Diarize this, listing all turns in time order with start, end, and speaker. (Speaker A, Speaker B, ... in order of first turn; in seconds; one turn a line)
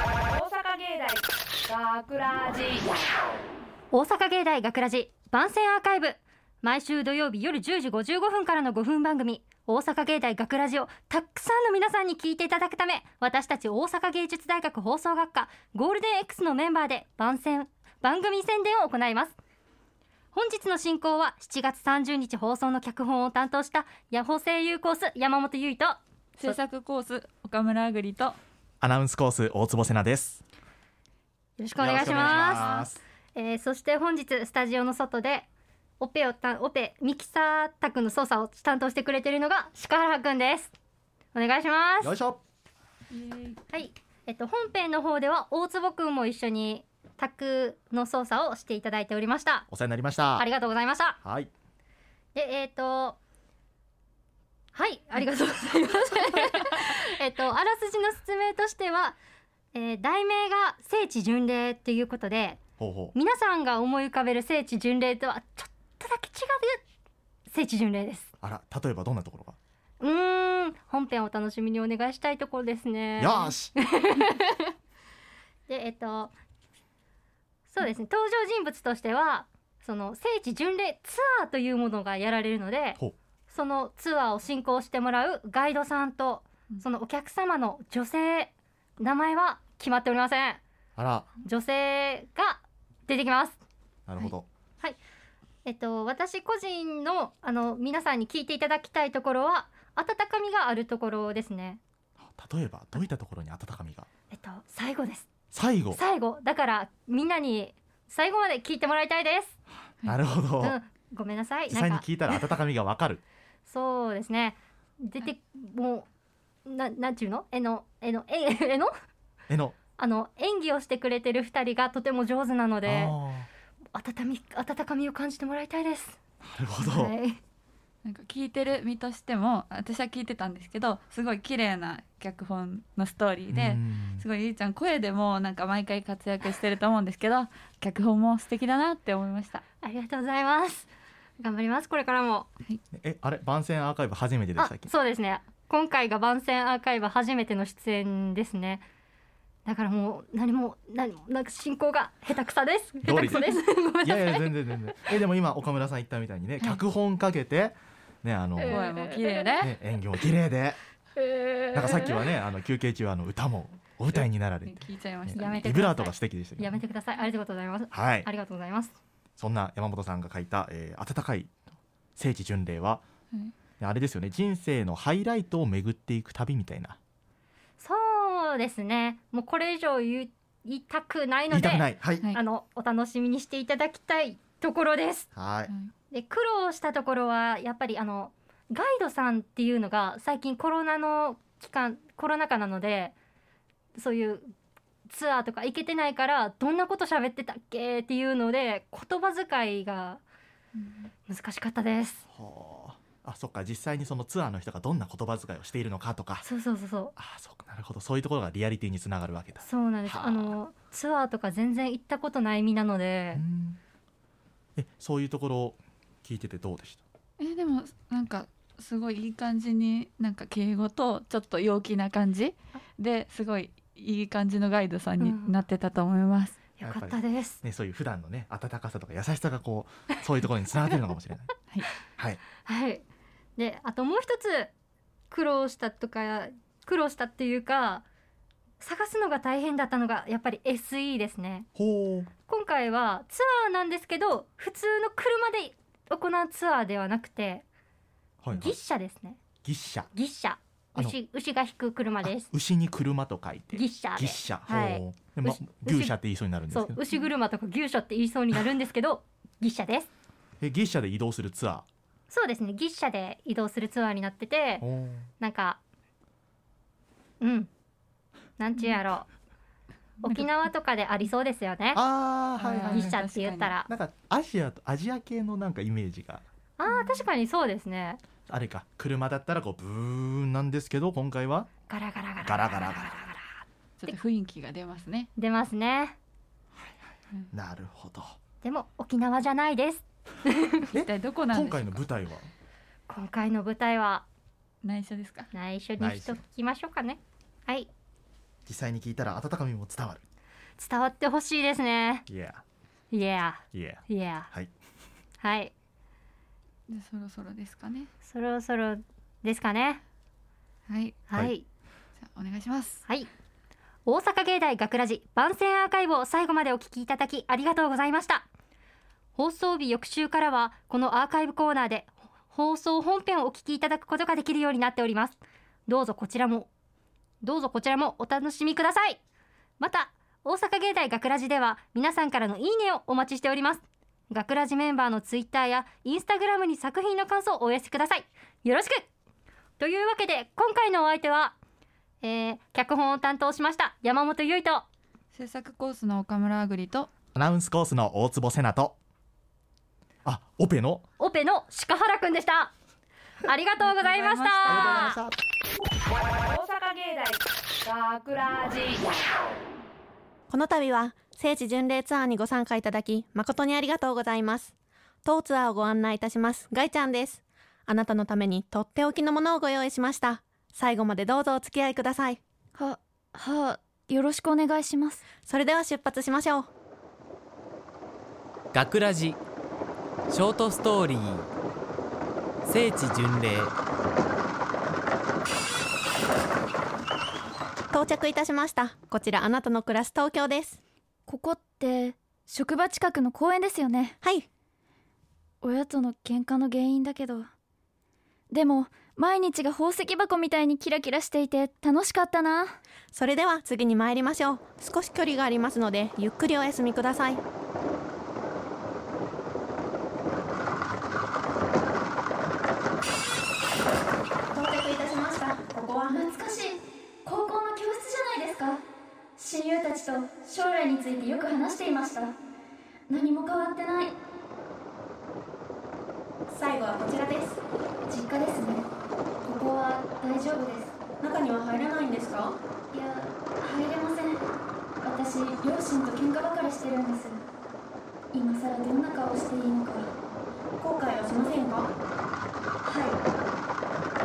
Speaker A: 0.3-2.9
Speaker B: 3.9-19.4
Speaker B: 20.3-26.6
Speaker C: 26.4-28.4
Speaker D: 28.8-30.4
Speaker B: 31.6-32.8
Speaker D: 31.8-33.0
Speaker B: 33.3-35.5
Speaker B: 36.0-40.7
Speaker B: 41.3-42.1
Speaker D: 42.0-42.4
Speaker C: 43.1-43.6
Speaker B: 43.7-49.7
Speaker D: 49.7-50.5
Speaker B: 50.3-51.2
Speaker D: 51.2-51.5
Speaker B: 52.3-53.2
Speaker B: 54.7-59.2
Speaker B: 59.7-62.6
Speaker D: 62.8-63.1
Speaker B: 63.1-66.8
Speaker B: 67.5-68.3
Speaker D: 68.4-69.6
Speaker B: 70.0-74.7
Speaker D: 73.2-73.7
Speaker B: 75.7-76.3
Speaker B: 77.7-90.6
Speaker D: 91.0-91.3
Speaker B: 91.4-93.6
Speaker D: 94.1-94.5
Speaker B: 95.6-101.8
Speaker D: 102.2-104.1
Speaker B: 104.3-105.3
Speaker D: 105.5-106.0
Speaker B: 105.9-109.5
Speaker D: 110.0-110.8
Speaker B: 110.6-112.5
Speaker D: 111.7-113.2
Speaker B: 113.7-116.1
Speaker B: 116.7-118.9
Speaker D: 119.5-119.8
Speaker B: 120.0-123.2
Speaker D: 122.8-123.5
Speaker B: 123.9-126.2
Speaker D: 126.4-127.1
Speaker B: 126.8-127.4
Speaker C: 128.0-139.6
Speaker D: 133.5-134.2
Speaker B: 139.8-140.9
Speaker B: 141.4-142.5
Speaker D: 142.9-144.9
Speaker B: 144.6-148.8
Speaker B: 149.7-154.5
Speaker D: 153.0-158.8
Speaker C: 158.6-159.7
Speaker D: 159.6-160.8
Speaker D: 161.7-164.8
Speaker C: 164.2-165.5
Speaker D: 165.3-166.7
Speaker B: 165.3-168.9
Speaker D: 167.9-168.3
Speaker D: 169.4-171.5
Speaker D: 172.2-173.0
Speaker D: 173.8-177.0
Speaker B: 177.8-185.3
Speaker D: 181.5-182.2
Speaker D: 185.3-185.7
Speaker C: 185.7-185.9
Speaker B: 186.1-193.1
Speaker B: 194.0-194.5
Speaker B: 195.1-200.2
Speaker C: 200.8-201.1
Speaker B: 201.3-202.2
Speaker D: 202.3-206.4
Speaker B: 206.4-207.1
Speaker D: 207.2-210.6
Speaker B: 209.6-213.4
Speaker D: 213.3-213.8
Speaker D: 214.8-217.0
Speaker C: 217.4-226.6
Speaker B: 225.2-225.6
Speaker B: 226.8-227.6
Speaker D: 226.8-231.5
Speaker B: 232.6-233.0
Speaker B: 233.6-234.7
Speaker B: 235.3-238.0
Speaker B: 238.8-241.7
Speaker D: 241.8-242.3
Speaker B: 242.5-247.6
Speaker D: 248.4-248.8
Speaker B: 248.5-249.4
Speaker D: 249.6-250.1
Speaker B: 250.1-252.5
Speaker D: 252.2-257.0
Speaker B: 253.7-256.1
Speaker B: 256.7-260.1
Speaker D: 260.6-261.9
Speaker B: 262.3-264.8
Speaker D: 264.8-265.3
Speaker B: 265.4-265.8
Speaker B: 267.4-267.7
Speaker B: 268.6-269.3
Speaker C: 270.2-270.6
Speaker B: 270.2-272.0
Speaker D: 271.9-273.2
Speaker C: 272.6-273.8
Speaker B: 272.9-273.9
Speaker D: 273.9-276.4
Speaker B: 276.8-278.2
Speaker D: 278.5-281.7
Speaker B: 281.9-283.4
Speaker D: 282.4-283.1
Speaker C: 284.0-285.3
Speaker B: 285.4-286.1
Speaker D: 287.5-288.4
Speaker B: 288.6-290.9
Speaker D: 290.9-292.5
Speaker C: 291.0-292.0
Speaker B: 293.1-294.2
Speaker C: 294.8-295.5
Speaker B: 295.5-297.9
Speaker D: 296.0-296.4
Speaker D: 298.6-300.2
Speaker B: 300.8-302.2
Speaker D: 302.3-302.6
Speaker B: 303.1-304.5
Speaker D: 303.7-304.7
Speaker B: 305.4-305.7
Speaker C: 306.9-308.1
Speaker B: 308.2-310.0
Speaker C: 310.9-311.2
Speaker B: 311.3-311.6
Speaker C: 312.2-313.0
Speaker B: 314.1-318.4
Speaker B: 319.4-326.7
Speaker B: 327.4-329.2
Speaker B: 329.8-339.1
Speaker B: 339.8-341.6
Speaker B: 342.2-344.8
Speaker C: 345.3-347.1
Speaker D: 347.3-348.9
Speaker D: 350.2-351.1
Speaker B: 351.2-352.7
Speaker B: 353.4-355.2
Speaker C: 353.8-354.8
Speaker D: 354.6-355.4
Speaker A: 356.4-359.1
Speaker E: 360.5-364.7
Speaker E: 365.2-372.4
Speaker F: 372.8-375.2
Speaker E: 375.5-376.7
Speaker G: 378.7-379.4
Speaker G: 380.3-381.5
Speaker G: 382.6-383.7
Speaker E: 387.9-390.8
Speaker F: 391.3-394.2
Speaker F: 395.6-397.5
Speaker F: 398.5-402.8
Speaker E: 403.1-407.4
Speaker E: 414.5-416.2
Speaker F: 416.1-418.8
Speaker F: 419.4-422.4
Speaker F: 423.1-424.1
Speaker E: 426.5-427.6
Speaker F: 428.1-428.9
Speaker F: 429.4-430.9
Speaker E: 431.2-432.6
Speaker F: 432.9-434.4
Speaker F: 435.0-437.4
Speaker F: 438.3-440.1
Speaker E: 440.8-441.9
Speaker F: 442.8-443.2